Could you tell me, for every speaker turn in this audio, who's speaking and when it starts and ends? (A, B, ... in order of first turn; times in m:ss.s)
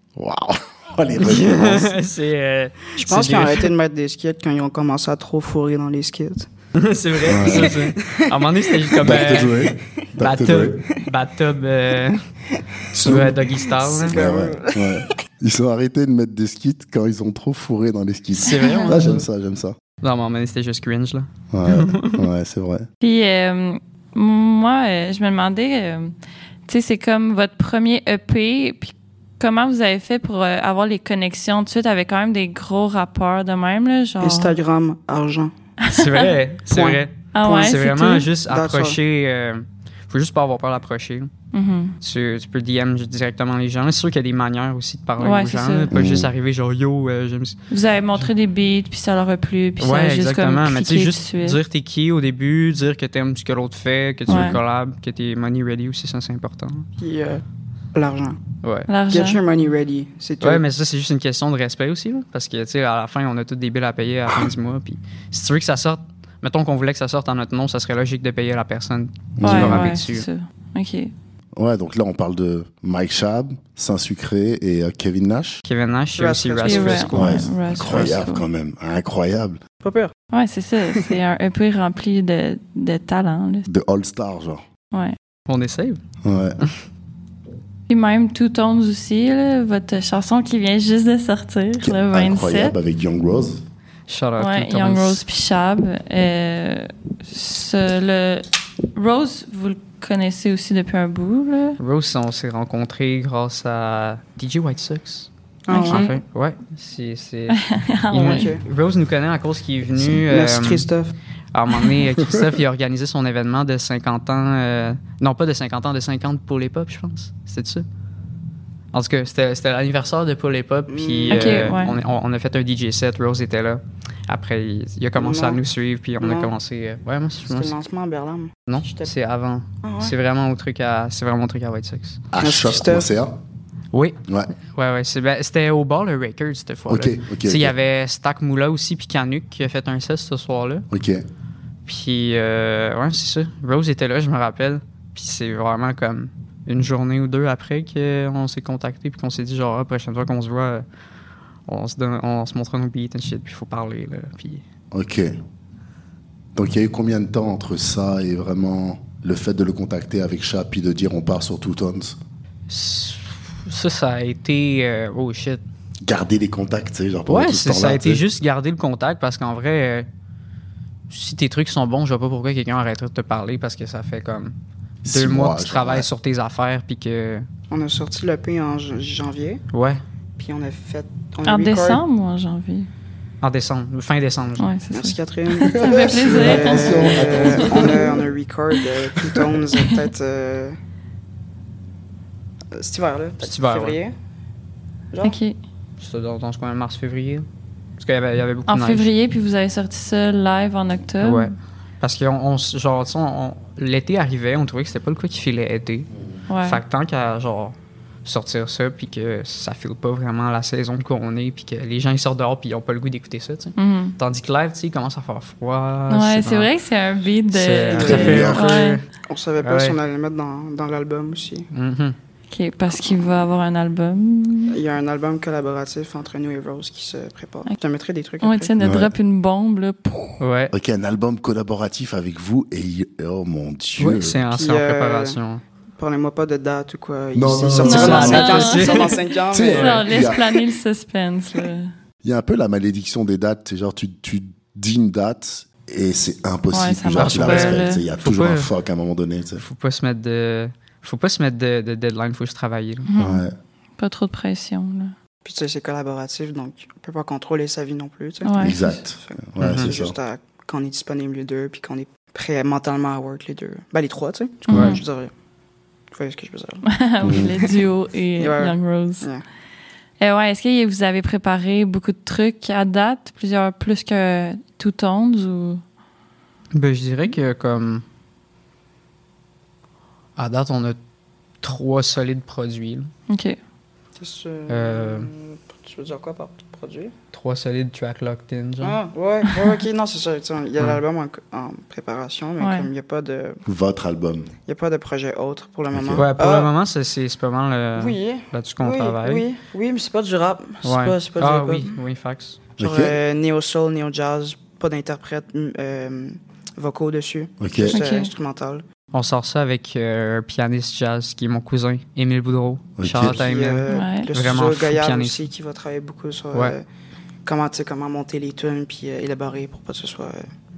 0:00.2-0:01.9 A
0:01.2-0:03.7 B
0:03.0-0:06.5 C
0:06.8-0:12.2 B
0:07.2-0:07.8 A
0:07.3-0:09.5 C
0:09.0-0:10.8 A
0:12.9-0:14.2 B
0:13.0-0:13.4 A
0:13.0-0:15.1 C
0:14.1-0:19.8 A
0:18.4-0:19.3 B
0:18.5-0:19.0 D
0:20.0-0:22.3 B
0:21.5-0:22.9 A
0:23.0-0:26.1 D
0:26.7-0:34.5 D
0:34.2-0:35.5 C
0:35.8-0:36.3 D
0:35.9-0:41.3 B
0:36.7-0:37.8 C
0:37.3-0:38.3 D
0:38.4-0:39.0 C
0:41.5-0:42.0 D
0:42.0-0:47.6 B
0:45.2-0:45.9 D
0:45.9-0:46.3 A
0:47.7-0:51.6 D
0:49.8-0:56.9 B
0:54.3-0:54.6 D
0:57.0-0:57.4 C
0:57.9-0:58.4 C
0:58.6-0:58.9 B
0:58.9-0:59.4 D
0:59.1-1:00.6 C
1:00.4-1:10.3 B
1:09.4-1:10.0 A
1:09.4-1:11.1 D
1:11.6-1:15.6 A
1:15.6-1:18.2 B
1:16.2-1:17.5 C
1:16.6-1:18.4 D
1:17.1-1:19.6 A
1:19.8-1:20.1 C
1:20.3-1:23.7 D
1:23.7-1:24.6 A
1:24.9-1:25.2 D
1:25.5-1:26.0 B
1:26.2-1:26.6 A
1:27.9-1:32.8 D
1:31.8-1:33.6 A
1:34.1-1:35.2 B
1:34.4-1:41.8 D
1:41.8-1:45.3 B
1:45.6-1:46.1 C
1:45.7-1:46.2 D
1:45.8-1:50.9 B
1:47.5-1:48.5 D
1:48.2-1:48.6 C
1:50.0-1:51.1 C
1:51.5-1:57.8 B
1:52.2-1:52.4 A
1:58.9-2:07.8 B
2:00.9-2:01.8 C
2:01.3-2:02.0 D
2:05.2-2:05.6 C
2:06.2-2:06.5 C
2:07.5-2:09.1 C
2:08.7-2:12.2 B
2:09.8-2:10.1 C
2:12.3-2:13.4 A
2:12.4-2:13.1 C
2:13.9-2:20.9 B
2:16.9-2:17.8 A
2:20.9-2:21.2 A
2:21.9-2:30.8 B
2:31.7-2:34.6 B
2:34.9-2:35.3 A
2:36.6-2:42.2 A
2:42.7-2:45.6 B
2:46.0-2:48.2 A
2:47.3-2:50.1 B
2:51.1-2:54.5 B
2:55.0-2:56.1 A
2:55.1-2:57.5 B
2:57.7-2:59.6 C
2:59.7-3:00.0 B
3:00.4-3:02.0 C
3:01.4-3:02.9 D
3:03.4-3:04.7 B
3:04.6-3:08.2 D
3:04.9-3:10.8 C
3:05.6-3:08.1 A
3:12.7-3:14.2 C
3:13.4-3:14.0 B
3:15.1-3:15.4 C
3:15.2-3:15.6 D
3:16.0-3:17.5 B
3:18.0-3:19.1 B
3:18.7-3:21.5 D
3:21.2-3:26.1 B
3:26.5-3:26.8 D
3:26.6-3:36.7 B
3:33.8-3:34.2 D
3:36.1-3:39.0 D
3:37.5-3:39.0 B
3:38.0-3:38.7 A
3:38.0-3:38.4 C
3:39.2-3:41.7 C
3:39.6-3:40.0 B
3:41.7-3:42.2 B
3:42.5-3:44.8 D
3:44.7-3:48.7 C
3:48.4-3:50.4 D
3:48.8-3:49.1 A
3:50.4-3:50.7 B
3:50.7-3:54.4 A
3:54.0-3:55.6 B
3:54.5-3:55.4 C
3:56.0-4:00.3 C
3:57.4-3:58.7 A
3:57.8-3:59.2 B
3:57.8-3:59.1 D
3:59.5-4:00.5 A
3:59.7-4:01.9 D
4:02.2-4:09.6 A
4:06.7-4:08.0 D
4:07.1-4:08.7 B
4:09.6-4:13.1 B
4:13.1-4:13.4 D
4:13.2-4:13.5 A
4:14.0-4:15.1 D
4:15.4-4:25.3 C
4:18.4-4:19.0 D
4:18.6-4:20.2 A
4:19.6-4:19.9 B
4:24.7-4:25.0 A
4:24.7-4:25.0 D
4:26.1-4:27.7 C
4:26.8-4:29.3 D
4:27.2-4:27.5 A
4:28.4-4:29.4 C
4:30.2-4:35.8 D
4:36.7-4:38.0 B
4:40.4-4:41.0 B
4:41.6-4:43.1 B
4:43.3-4:43.6 D
4:44.2-4:47.1 C
4:44.7-4:45.3 B
4:47.3-4:49.0 B
4:48.8-4:53.6 C
4:52.6-4:52.9 D
4:53.6-4:54.5 A
4:54.7-4:56.7 C
4:55.9-4:56.3 A
4:56.2-4:59.4 B
4:58.0-5:01.9 C
5:00.8-5:02.6 B
5:02.8-5:03.2 A
5:02.8-5:08.8 C
5:07.6-5:08.0 A
5:07.9-5:08.3 D
5:09.1-5:15.4 B
5:13.0-5:13.4 A
5:13.2-5:16.8 C
5:13.9-5:14.3 D
5:17.4-5:20.5 C